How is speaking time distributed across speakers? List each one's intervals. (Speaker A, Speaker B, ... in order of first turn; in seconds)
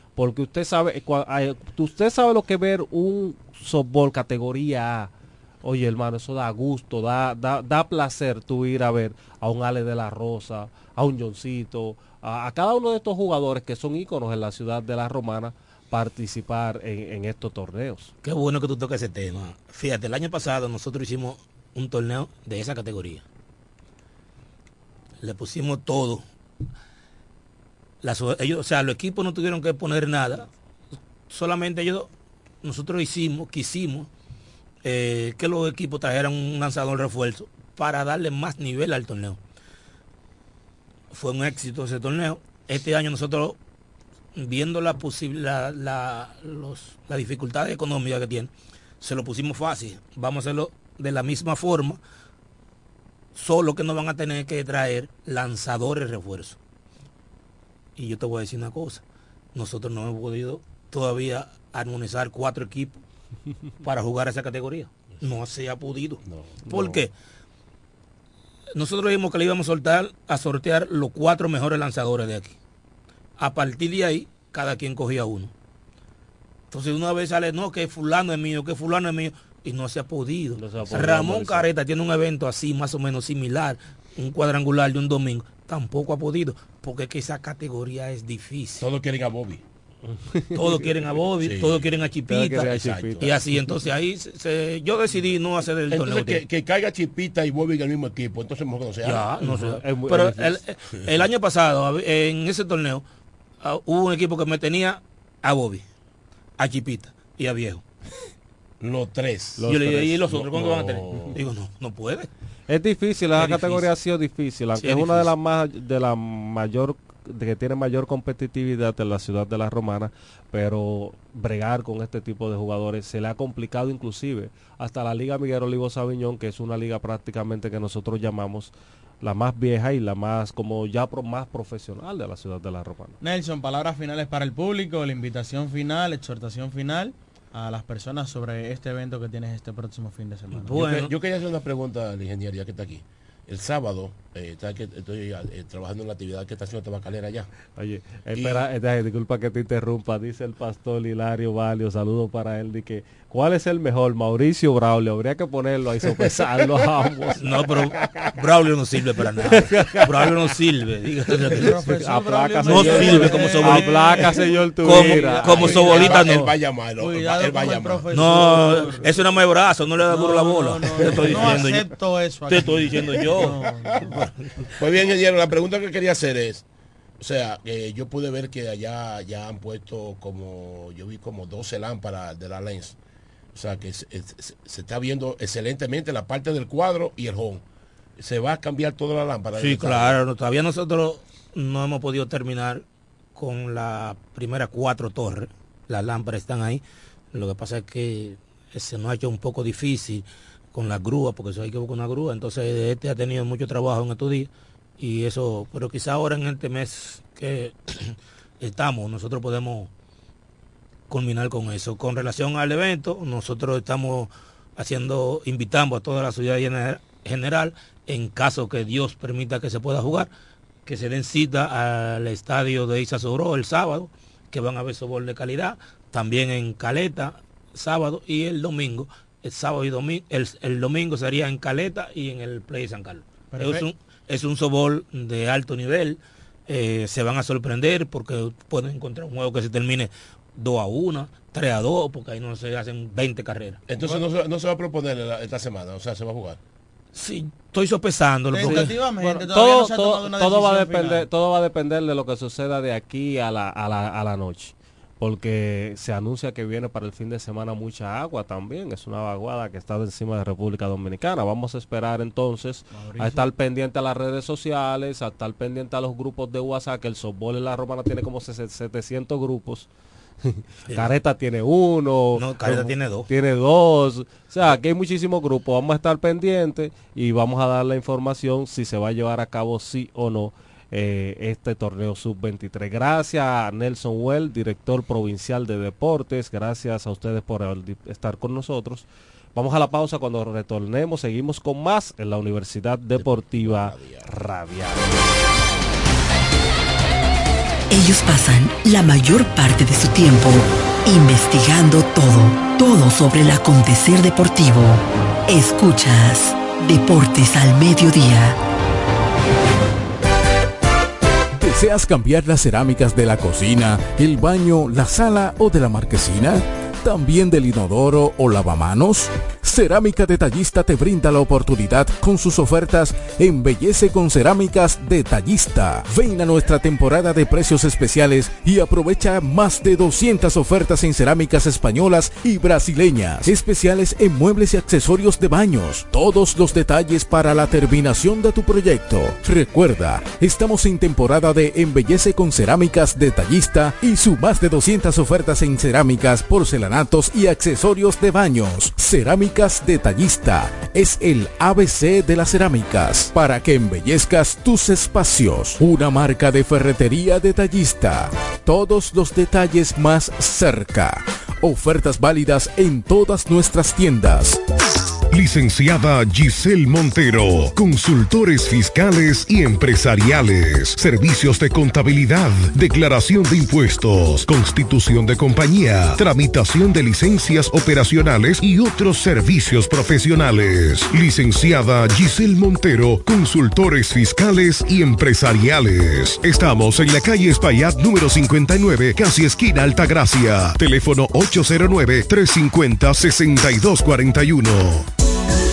Speaker A: 0.2-5.1, 5.6-18.1, 66.7-67.0, 80.6-81.7, 90.3-90.9, 92.3-93.7, 99.4-100.6, 109.6-110.3, 112.7-128.7, 129.2-133.2, 147.8-157.6, 159.5-160.5, 161.6-166.0, 248.6-269.9, 270.4-295.0
Speaker B: 18.2-23.2, 25.2-26.2, 28.0-30.5, 31.3-32.1, 32.6-34.1, 34.8-39.4, 41.1-43.6, 44.4-52.0, 53.4-56.6, 58.0-59.0, 59.5-63.0, 63.8-67.1, 68.8-72.6, 73.4-75.5, 76.7-88.8, 90.5-96.4, 99.0-103.0, 103.6-105.8, 106.6-107.8, 109.7-112.3, 113.3-113.9, 114.8-115.3, 140.6-141.1, 157.4-161.8, 162.7-164.3, 164.8-166.6, 168.1-171.9, 172.5-173.6, 189.6-192.8, 193.4-196.8, 197.3-209.9, 211.1-220.3, 220.9-243.8, 247.1-249.0, 272.4-273.3
Speaker C: 66.2-66.6, 88.8-89.6, 91.4-92.1, 92.7-93.3, 95.9-99.3, 108.8-111.4, 140.8-147.5, 148.3-148.7, 165.5-168.9, 171.0-171.6, 173.1-173.4, 174.8-176.7, 177.2-183.0, 183.5-187.6, 188.2-190.2, 243.9-246.6, 293.1-294.3
Speaker D: 133.2-141.0, 161.5-166.3, 167.0-169.1, 170.1-174.3, 233.5-233.9, 248.5-251.3, 262.9-263.5
Speaker E: 297.9-308.6
Speaker F: 311.6-364.6
Speaker G: 365.3-395.1